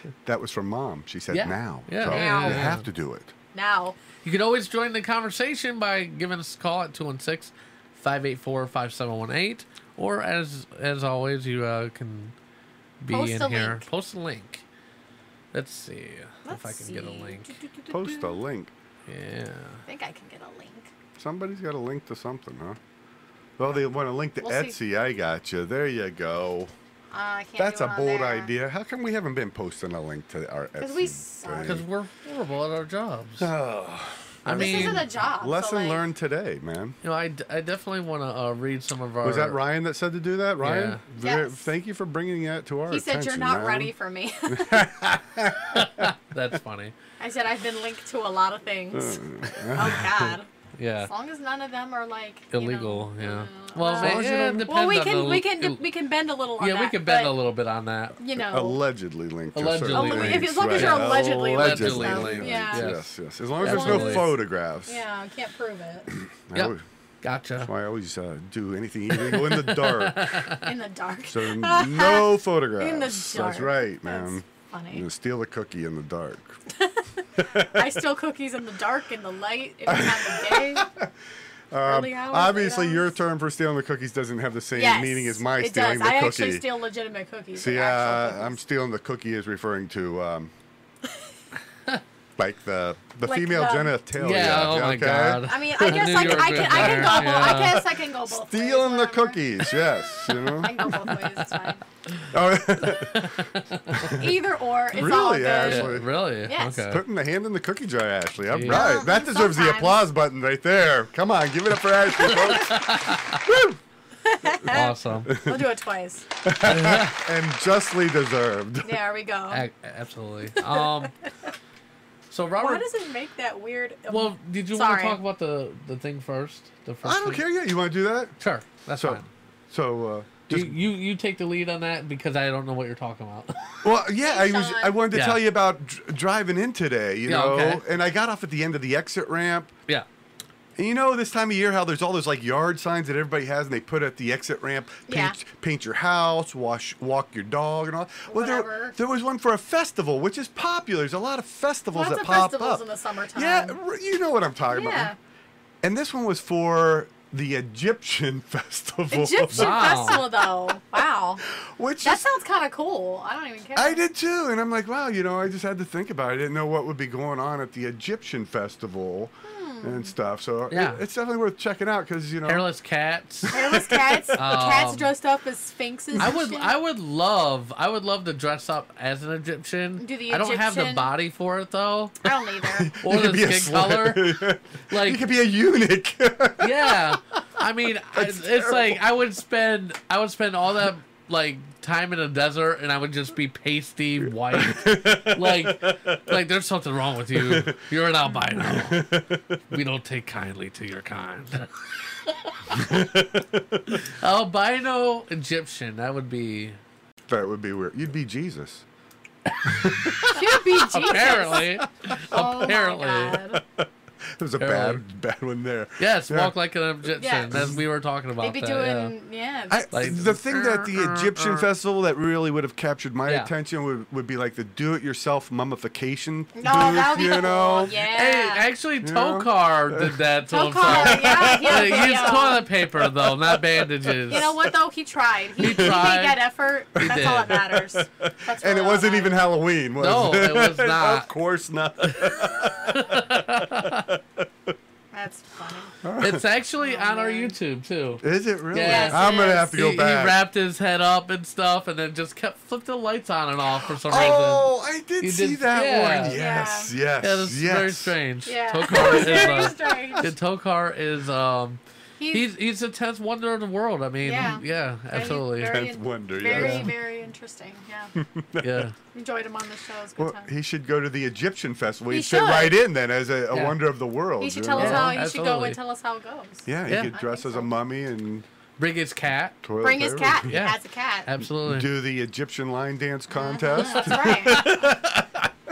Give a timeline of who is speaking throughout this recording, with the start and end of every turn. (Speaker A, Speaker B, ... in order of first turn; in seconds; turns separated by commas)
Speaker A: 0.2-3.3, Speaker B: 1.3-2.9, Speaker C: 2.0-2.7, Speaker C: 3.5-4.0, Speaker B: 4.2-12.3, Speaker B: 13.0-14.7, Speaker C: 13.1-13.9, Speaker B: 15.5-17.6, Speaker C: 16.4-18.3, Speaker A: 17.9-18.7, Speaker B: 19.1-19.8, Speaker C: 19.9-20.9, Speaker A: 21.2-22.8, Speaker A: 23.6-26.7, Speaker C: 24.4-24.8, Speaker C: 27.1-28.5, Speaker A: 27.6-31.9, Speaker C: 30.8-31.9, Speaker B: 31.6-33.5, Speaker A: 33.4-37.0, Speaker B: 34.5-35.1, Speaker C: 34.5-36.0, Speaker B: 37.0-39.6, Speaker A: 39.2-43.9, Speaker B: 40.6-41.0, Speaker C: 41.2-41.7, Speaker C: 42.9-44.9, Speaker A: 44.5-46.1, Speaker B: 45.7-46.9, Speaker C: 47.2-49.2, Speaker A: 48.9-50.1, Speaker C: 49.7-50.5, Speaker B: 50.8-51.1, Speaker C: 51.1-57.4, Speaker B: 52.5-55.9, Speaker A: 53.9-54.7, Speaker B: 56.6-58.2, Speaker C: 58.2-58.8, Speaker A: 58.4-65.0, Speaker B: 59.5-64.4, Speaker C: 59.9-62.9, Speaker C: 63.6-64.3, Speaker C: 64.8-66.1, Speaker A: 66.2-66.8, Speaker B: 66.5-67.7, Speaker A: 67.6-70.4, Speaker B: 69.2-70.7, Speaker C: 70.6-75.0, Speaker A: 71.3-76.6, Speaker C: 76.8-77.0, Speaker A: 77.4-77.8, Speaker C: 77.7-80.9, Speaker A: 79.9-81.1, Speaker A: 81.7-86.7, Speaker C: 81.8-83.2, Speaker C: 84.8-88.6, Speaker A: 87.6-90.5, Speaker A: 92.4-101.1, Speaker C: 93.2-94.0, Speaker B: 94.2-97.8, Speaker C: 95.4-99.4, Speaker B: 100.3-101.1, Speaker C: 100.6-101.8, Speaker A: 102.3-103.3, Speaker B: 102.8-104.2, Speaker A: 104.0-104.3, Speaker C: 104.1-106.9, Speaker A: 104.9-106.1, Speaker B: 105.6-107.0, Speaker A: 106.9-113.8, Speaker B: 108.5-109.0, Speaker C: 108.7-110.0, Speaker B: 112.6-113.4, Speaker C: 114.2-116.2, Speaker B: 114.7-115.3, Speaker A: 115.3-115.6, Speaker A: 116.4-119.0, Speaker B: 116.6-117.2, Speaker C: 118.8-119.7, Speaker B: 119.5-121.1, Speaker B: 122.3-122.9, Speaker C: 122.6-125.2, Speaker B: 124.1-127.4, Speaker A: 127.0-128.4, Speaker B: 128.4-129.3, Speaker A: 128.9-130.8, Speaker B: 130.5-133.6, Speaker A: 133.8-139.7, Speaker C: 134.2-135.0, Speaker B: 135.1-135.4, Speaker B: 137.3-137.8, Speaker A: 140.8-155.2, Speaker C: 145.1-145.4, Speaker C: 148.3-149.0, Speaker C: 151.9-153.8, Speaker C: 154.7-155.2, Speaker A: 155.8-160.0, Speaker C: 159.1-161.4, Speaker B: 159.5-160.4, Speaker A: 161.6-162.3, Speaker C: 162.0-164.0, Speaker A: 163.8-172.7, Speaker C: 169.4-170.1, Speaker B: 170.7-171.0, Speaker B: 172.4-173.5, Speaker A: 173.4-174.3, Speaker C: 173.5-176.7, Speaker B: 174.4-175.1, Speaker B: 176.2-182.2, Speaker C: 180.0-181.1, Speaker C: 182.2-182.9, Speaker A: 182.7-187.2, Speaker B: 183.0-185.2, Speaker B: 186.6-199.0, Speaker A: 188.1-189.0, Speaker A: 194.2-196.3, Speaker A: 197.3-197.8, Speaker A: 198.5-199.6, Speaker B: 199.7-201.7, Speaker B: 202.3-202.8, Speaker A: 202.7-204.0, Speaker B: 204.0-206.8, Speaker A: 207.3-208.8, Speaker B: 209.5-213.4, Speaker C: 210.3-211.7, Speaker A: 211.0-211.8, Speaker C: 212.3-213.6, Speaker A: 212.4-212.7, Speaker A: 213.5-216.5, Speaker B: 214.6-215.0, Speaker B: 216.0-219.1, Speaker C: 217.2-217.6, Speaker A: 217.5-217.8, Speaker C: 218.4-220.3, Speaker A: 219.7-227.9, Speaker B: 219.9-221.7, Speaker C: 226.6-228.7, Speaker B: 227.9-234.6, Speaker A: 229.0-230.3, Speaker C: 230.5-232.6, Speaker A: 230.8-234.3, Speaker C: 234.3-239.5, Speaker B: 235.6-236.4, Speaker A: 235.6-235.9, Speaker B: 237.0-237.7, Speaker A: 237.0-243.2, Speaker B: 240.0-241.3, Speaker B: 242.1-244.1, Speaker C: 245.1-245.9, Speaker A: 246.0-246.4, Speaker B: 246.2-254.7, Speaker C: 246.8-247.5, Speaker A: 248.2-250.4, Speaker C: 248.8-249.7, Speaker A: 254.1-258.1, Speaker B: 255.2-256.4, Speaker C: 256.3-256.9, Speaker B: 257.2-265.9, Speaker C: 258.5-260.3, Speaker A: 258.9-260.3, Speaker C: 262.2-262.5, Speaker C: 264.2-268.1, Speaker A: 265.6-266.9, Speaker B: 266.5-266.9, Speaker A: 268.2-268.9, Speaker B: 268.6-268.9, Speaker C: 269.1-270.5, Speaker A: 270.2-275.2, Speaker C: 272.1-272.8, Speaker B: 273.5-273.8, Speaker C: 274.4-277.7, Speaker B: 274.8-275.8, Speaker A: 276.7-278.5, Speaker B: 276.9-277.1, Speaker B: 278.8-279.6, Speaker A: 279.6-280.6, Speaker C: 279.8-281.3, Speaker B: 280.5-281.9, Speaker A: 281.5-285.5, Speaker C: 283.3-284.9